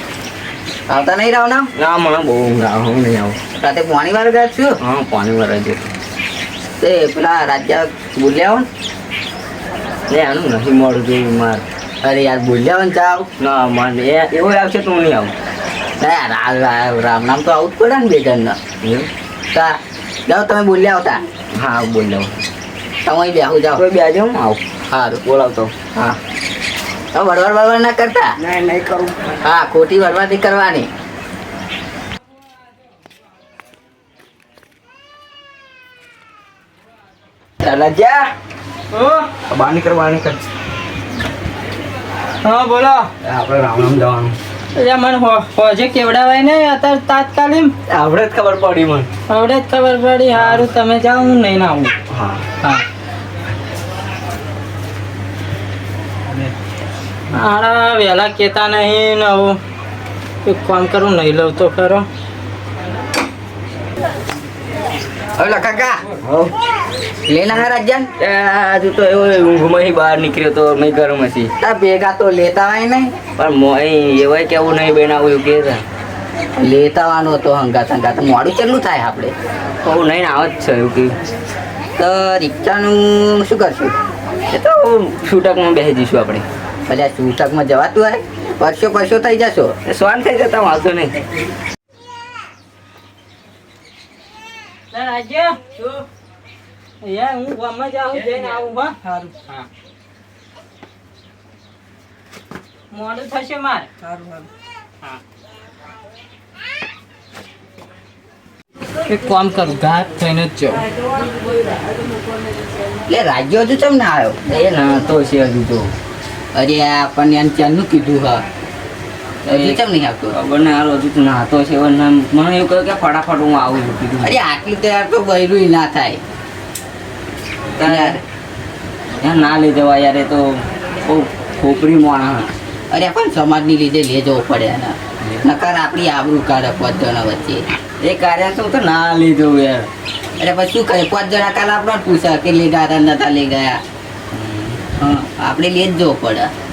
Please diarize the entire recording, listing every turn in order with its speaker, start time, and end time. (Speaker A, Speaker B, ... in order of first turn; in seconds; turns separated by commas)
Speaker A: 0.9-1.7, Speaker B: 1.7-3.4, Speaker A: 3.5-4.8, Speaker B: 4.8-5.9, Speaker A: 6.8-8.7, Speaker B: 10.1-11.6, Speaker A: 12.0-13.3, Speaker B: 13.4-15.3, Speaker A: 16.0-18.6, Speaker B: 18.8-19.1, Speaker A: 19.5-21.2, Speaker B: 21.5-22.3, Speaker A: 23.0-23.8, Speaker B: 23.7-24.6, Speaker A: 24.9-25.2, Speaker B: 25.2-25.8, Speaker A: 27.1-28.3, Speaker B: 28.4-29.3, Speaker A: 29.4-30.9, Speaker B: 37.6-38.3, Speaker C: 38.9-39.3, Speaker B: 39.5-40.5, Speaker C: 42.4-43.1, Speaker B: 43.2-44.4, Speaker C: 44.7-47.7, Speaker B: 47.9-49.1, Speaker C: 49.3-51.9, Speaker B: 50.3-50.7, Speaker B: 52.1-52.4, Speaker C: 57.3-59.6, Speaker C: 60.4-62.0, Speaker A: 65.4-66.0, Speaker B: 66.2-66.5, Speaker A: 67.2-68.1, Speaker B: 68.2-71.5, Speaker A: 71.6-73.2, Speaker B: 73.3-75.8, Speaker A: 76.6-79.3, Speaker B: 79.8-81.2, Speaker A: 82.0-83.9, Speaker B: 84.5-86.4, Speaker A: 86.9-89.7, Speaker B: 89.8-91.1, Speaker C: 94.9-95.8, Speaker C: 97.0-99.6, Speaker C: 102.9-103.9, Speaker B: 104.0-104.4, Speaker C: 109.0-110.8, Speaker A: 113.1-114.5, Speaker B: 114.5-115.9, Speaker A: 116.5-118.4, Speaker B: 119.4-124.4, Speaker A: 119.5-120.4, Speaker A: 124.2-126.2, Speaker B: 127.8-128.2, Speaker A: 127.8-128.2, Speaker B: 129.2-132.6, Speaker A: 132.9-137.7, Speaker B: 138.0-139.9, Speaker A: 140.4-143.8, Speaker B: 144.3-145.1, Speaker A: 145.2-146.5